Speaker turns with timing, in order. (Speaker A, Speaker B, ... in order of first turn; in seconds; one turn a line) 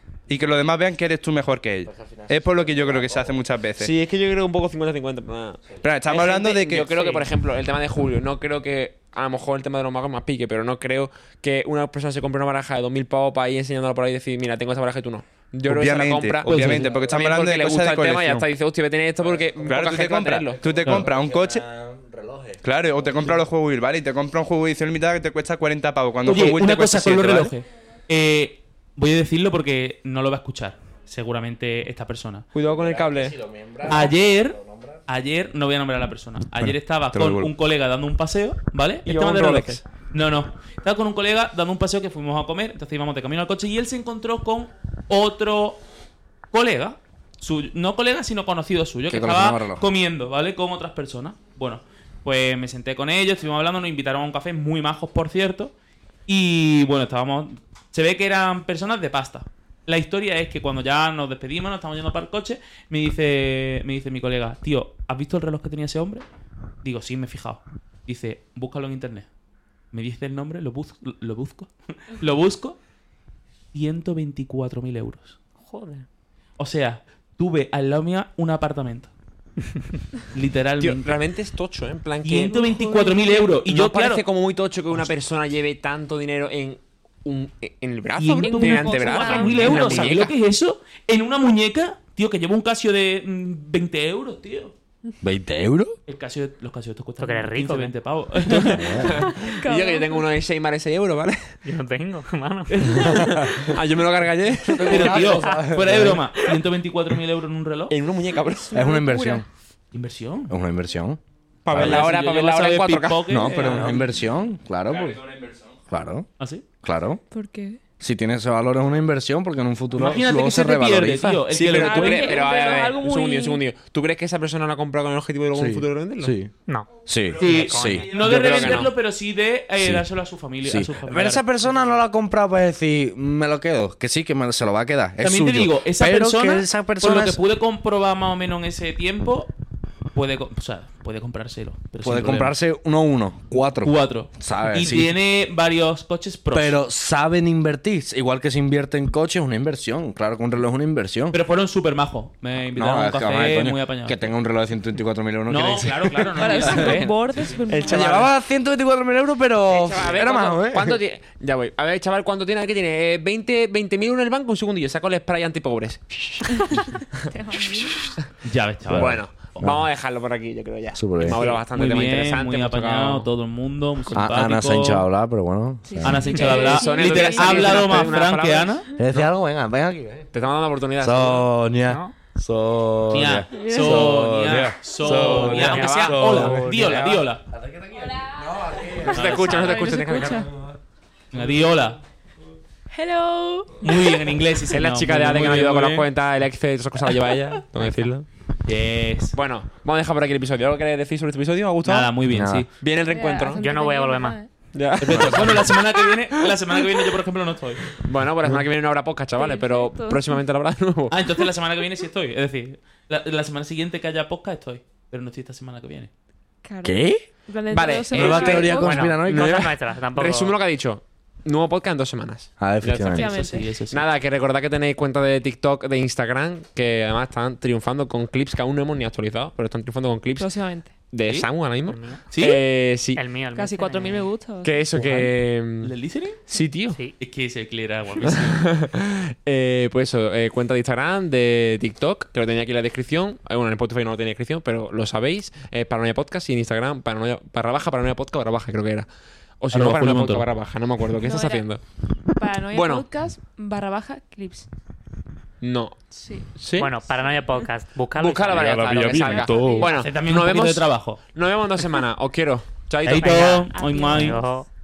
Speaker A: 0.3-3.9
Speaker B: 1.8-3.4
Speaker C: 3.8-20.9
Speaker A: 5.8-7.2
Speaker A: 15.7-18.4
Speaker D: 16.4-16.9
Speaker B: 16.8-17.2
Speaker B: 19.2-20.0
Speaker A: 19.6-21.6
Speaker B: 20.5-23.3
Speaker A: 22.6-27.6
Speaker D: 26.2-32.4
Speaker C: 32.5-33.4
Speaker B: 32.7-35.0
Speaker D: 33.8-45.8
Speaker A: 36.6-37.5
Speaker C: 39.0-39.8
Speaker D: 46.5-55.7
Speaker B: 49.1-49.9
Speaker D: 56.3-66.2
Speaker D: 66.8-69.3
Speaker D: 69.9-72.8
Speaker D: 73.7-75.4
Speaker E: 75.6-76.0
Speaker D: 76.6-79.1
Speaker D: 80.3-81.2
Speaker C: 80.8-82.7
Speaker D: 82.2-84.2
Speaker F: 82.5-83.6
Speaker C: 83.7-90.3
Speaker D: 88.2-94.7
Speaker F: 88.4-90.2
Speaker E: 89.8-90.1
Speaker B: 95.2-96.0
Speaker D: 96.1-99.2
Speaker E: 97.2-97.9
Speaker B: 98.7-99.2
Speaker C: 98.7-101.5
Speaker F: 99.5-100.3
Speaker E: 101.7-103.3
Speaker C: 102.7-105.2
Speaker B: 102.9-103.9
Speaker B: 104.6-106.3
Speaker D: 104.8-108.0
Speaker E: 105.0-105.6
Speaker C: 107.9-108.8
Speaker F: 108.7-109.4
Speaker B: 108.7-109.5
Speaker D: 109.9-110.5
Speaker B: 110.5-112.1
Speaker C: 111.6-114.0
Speaker D: 111.7-114.1
Speaker B: 113.3-115.2
Speaker A: 114.9-115.7
Speaker B: 115.9-116.3
Speaker D: 116.4-116.6
Speaker B: 116.8-117.2
Speaker F: 117.3-117.8
Speaker B: 118.0-121.5
Speaker D: 119.9-122.4
Speaker C: 121.5-126.3
Speaker F: 121.6-123.6
Speaker B: 125.5-126.5
Speaker E: 126.7-128.2
Speaker B: 127.0-128.8
Speaker D: 127.4-131.9
Speaker C: 128.2-128.9
Speaker B: 129.8-130.1
Speaker B: 130.6-137.4
Speaker D: 135.2-139.5
Speaker D: 140.1-142.6
Speaker B: 142.0-145.1
Speaker D: 143.8-146.8
Speaker B: 146.5-151.4
Speaker D: 151.3-154.3
Speaker B: 152.7-157.1
Speaker D: 155.5-157.6
Speaker F: 156.3-158.2
Speaker C: 157.7-158.3
Speaker B: 157.7-161.0
Speaker C: 159.7-167.2
Speaker F: 166.6-168.2
Speaker D: 168.4-169.7
Speaker B: 168.9-169.8
Speaker C: 168.9-173.3
Speaker B: 170.9-171.4
Speaker F: 171.3-171.6
Speaker D: 171.7-175.1
Speaker B: 174.1-176.3
Speaker F: 175.8-178.1
Speaker D: 176.0-178.8
Speaker C: 176.4-179.3
Speaker B: 179.0-180.3
Speaker C: 180.3-181.5
Speaker B: 181.0-189.6
Speaker E: 181.8-182.1
Speaker D: 183.1-187.4
Speaker F: 183.5-184.2
Speaker A: 184.4-184.8
Speaker F: 185.0-185.4
Speaker C: 185.1-186.5
Speaker E: 185.3-187.2
Speaker C: 188.9-190.5
Speaker D: 189.1-189.8
Speaker F: 189.5-190.5
Speaker D: 191.3-192.0
Speaker F: 192.9-194.3
Speaker D: 193.8-196.1
Speaker C: 194.7-198.3
Speaker F: 197.1-197.6
Speaker D: 198.7-199.3
Speaker C: 199.3-202.1
Speaker D: 201.8-202.7
Speaker B: 202.3-202.7
Speaker C: 202.8-203.6
Speaker F: 203.1-204.7
Speaker E: 203.6-204.4
Speaker C: 204.7-206.5
Speaker D: 205.0-208.0
Speaker E: 205.1-205.4
Speaker C: 207.9-211.2
Speaker F: 209.3-210.4
Speaker D: 211.1-216.1
Speaker F: 216.6-219.2
Speaker B: 216.8-217.2
Speaker C: 217.7-223.4
Speaker B: 218.1-219.7
Speaker E: 219.0-220.6
Speaker B: 222.6-223.4
Speaker F: 223.0-223.7
Speaker D: 223.3-224.1
Speaker C: 223.9-233.2
Speaker F: 230.3-230.9
Speaker D: 231.2-231.5
Speaker E: 231.9-232.2
Speaker D: 232.3-232.6
Speaker E: 233.2-234.3
Speaker F: 233.5-234.9
Speaker C: 234.6-235.9
Speaker D: 235.0-236.4
Speaker C: 236.4-237.0
Speaker D: 237.2-238.7
Speaker C: 238.2-249.1
Speaker C: 249.6-251.8
Speaker D: 249.7-250.5
Speaker F: 251.2-251.7
Speaker F: 252.3-254.7
Speaker C: 252.7-253.1
Speaker C: 255.6-256.0
Speaker F: 256.1-256.5
Speaker B: 256.6-256.9
Speaker E: 256.8-259.2
Speaker F: 257.2-257.7
Speaker C: 258.1-263.6
Speaker A: 258.5-259.9
Speaker B: 258.9-259.8
Speaker F: 259.1-260.1
Speaker D: 259.9-261.2
Speaker D: 263.0-264.4
Speaker E: 263.1-264.6
Speaker F: 263.7-264.5